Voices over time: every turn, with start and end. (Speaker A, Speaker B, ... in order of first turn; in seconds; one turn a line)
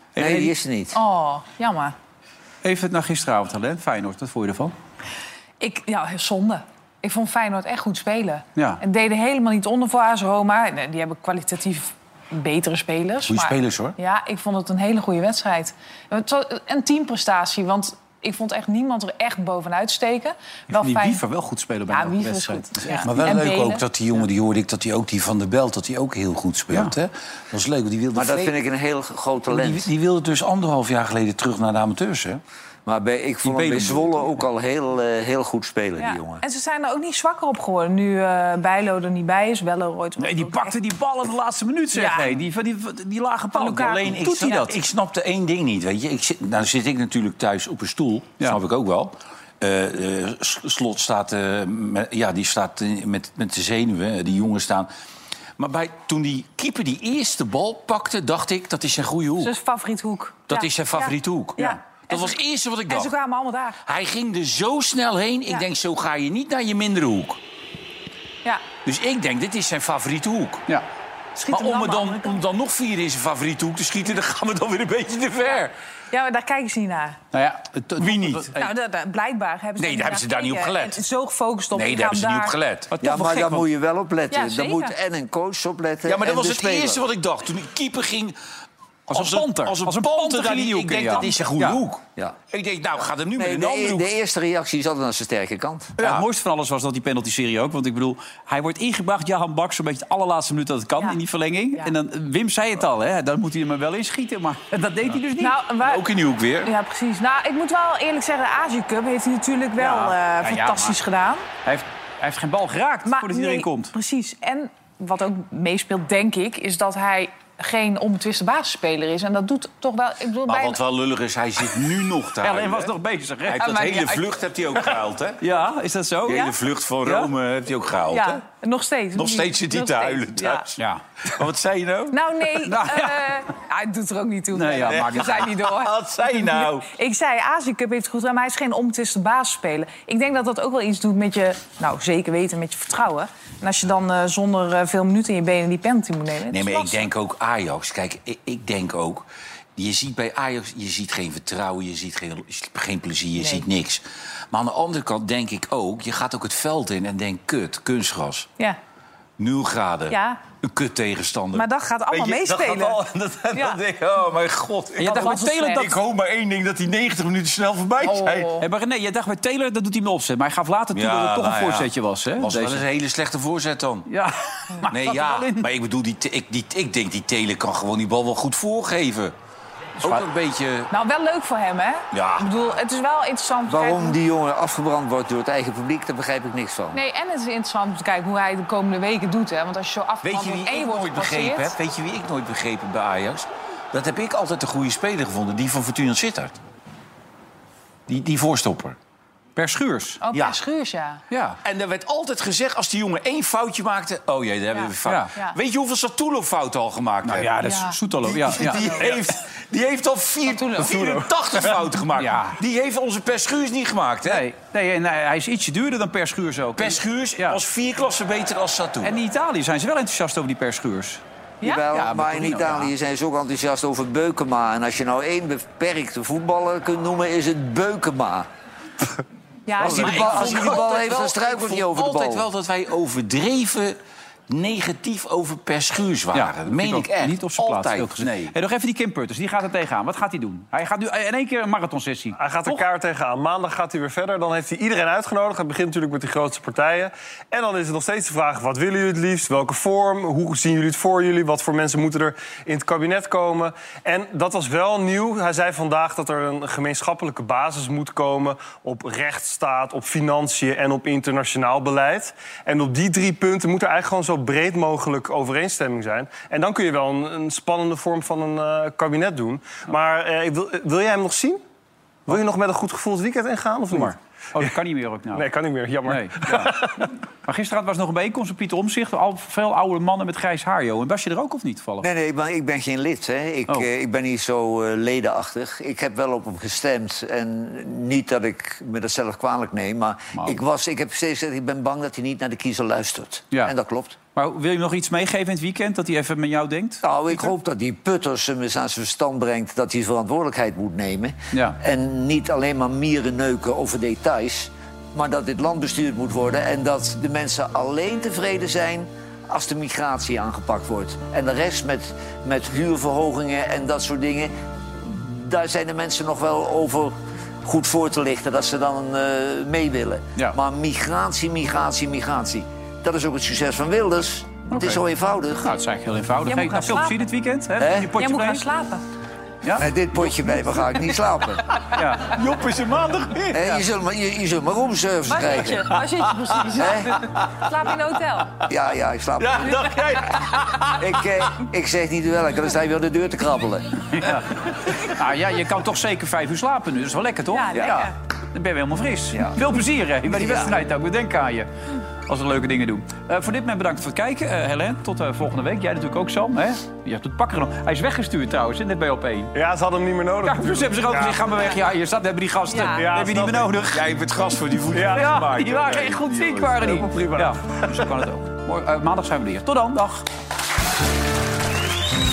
Speaker A: 0.2-0.6
Speaker B: 0.2-1.0
Speaker C: 0.9-1.9
Speaker A: 2.6-4.8
Speaker C: 5.6-21.2
Speaker A: 8.6-8.8
Speaker D: 13.3-14.0
Speaker A: 20.7-23.3
Speaker C: 21.9-23.9
Speaker D: 23.0-28.6
Speaker B: 28.1-29.9
Speaker D: 29.5-32.4
Speaker B: 32.9-36.4
Speaker D: 33.4-34.1
Speaker C: 36.0-40.8
Speaker A: 40.2-44.8
Speaker C: 42.0-42.4
Speaker C: 43.5-44.2
Speaker D: 43.8-54.9
Speaker D: 55.6-59.5
Speaker C: 59.4-63.8
Speaker D: 60.5-63.1
Speaker D: 63.9-67.4
Speaker D: 68.8-70.6
Speaker C: 71.3-72.4
Speaker D: 71.5-75.7
Speaker C: 76.1-77.2
Speaker A: 77.3-78.5
Speaker D: 78.0-78.7
Speaker C: 78.5-82.6
Speaker D: 79.8-81.0
Speaker D: 81.7-83.0
Speaker A: 82.9-83.7
Speaker B: 83.0-87.0
Speaker C: 84.3-85.0
Speaker D: 86.0-88.3
Speaker A: 89.1-91.8
Speaker D: 89.1-94.1
Speaker B: 93.4-95.9
Speaker A: 96.0-105.6
Speaker C: 105.4-106.1
Speaker D: 105.8-106.7
Speaker C: 106.6-111.5
Speaker A: 109.8-111.0
Speaker A: 111.7-113.9
Speaker C: 113.1-120.8
Speaker D: 120.5-122.9
Speaker A: 122.4-123.8
Speaker C: 123.5-124.3
Speaker D: 123.5-125.4
Speaker A: 125.4-126.5
Speaker D: 126.2-128.4
Speaker C: 126.3-126.5
Speaker A: 127.0-127.3
Speaker C: 128.1-130.7
Speaker D: 129.2-132.2
Speaker A: 130.8-131.0
Speaker C: 132.1-147.1
Speaker A: 132.6-133.4
Speaker A: 134.5-135.5
Speaker D: 134.9-136.9
Speaker D: 146.5-158.5
Speaker C: 153.4-153.7
Speaker D: 159.4-168.6
Speaker C: 160.1-160.4
Speaker C: 161.5-163.8
Speaker C: 165.0-165.9
Speaker A: 165.0-165.9
Speaker C: 168.0-168.7
Speaker A: 168.6-172.8
Speaker D: 170.9-174.1
Speaker A: 174.1-175.7
Speaker D: 174.9-179.3
Speaker D: 180.0-180.9
Speaker C: 180.9-184.2
Speaker D: 182.1-182.5
Speaker B: 183.7-187.0
Speaker C: 186.9-191.8
Speaker D: 190.2-196.6
Speaker D: 198.1-199.0
Speaker A: 199.6-200.2
Speaker C: 200.2-201.2
Speaker D: 200.3-200.6
Speaker A: 201.3-201.6
Speaker D: 201.6-207.5
Speaker C: 204.7-205.6
Speaker A: 205.1-205.3
Speaker A: 207.2-209.2
Speaker C: 207.6-208.0
Speaker D: 208.2-214.4
Speaker C: 208.6-209.2
Speaker C: 210.5-211.3
Speaker A: 212.2-212.6
Speaker A: 214.2-217.6
Speaker D: 216.8-219.2
Speaker A: 219.0-221.2
Speaker B: 221.6-228.5
Speaker A: 221.9-222.9
Speaker C: 229.7-231.3
Speaker B: 229.8-232.5
Speaker D: 229.8-234.0
Speaker D: 234.5-238.5
Speaker A: 236.3-242.8
Speaker E: 242.3-271.6
Speaker E: 272.3-274.6
Speaker A: 273.9-275.5
Speaker E: 275.3-277.0
Speaker A: 276.1-276.8
Speaker A: 277.4-282.1
Speaker B: 282.0-294.2
Speaker A: 294.4-297.5
Speaker B: 297.0-325.7
Speaker A: 301.5-301.8
Speaker A: 324.7-325.0
Speaker A: 325.6-328.6
Speaker C: 326.5-327.2
Speaker B: 327.8-328.1
Speaker C: 328.1-329.0
Speaker A: 329.6-330.4
Speaker B: 329.8-331.8
Speaker A: 331.9-333.9
Speaker D: 332.5-333.3
Speaker B: 333.5-336.0
Speaker C: 335.3-338.5
Speaker B: 336.8-337.2
Speaker B: 338.7-339.9
Speaker C: 339.7-340.2
Speaker D: 339.7-340.2
Speaker B: 341.0-344.0
Speaker A: 344.1-351.7
Speaker C: 347.5-348.1
Speaker B: 350.3-350.8
Speaker A: 352.3-359.5
Speaker E: 359.5-361.6
Speaker A: 360.4-364.1
Speaker C: 362.7-363.1
Speaker E: 362.9-363.8
Speaker D: 363.9-366.9
Speaker E: 364.9-365.4
Speaker A: 365.0-370.2
Speaker E: 366.9-367.6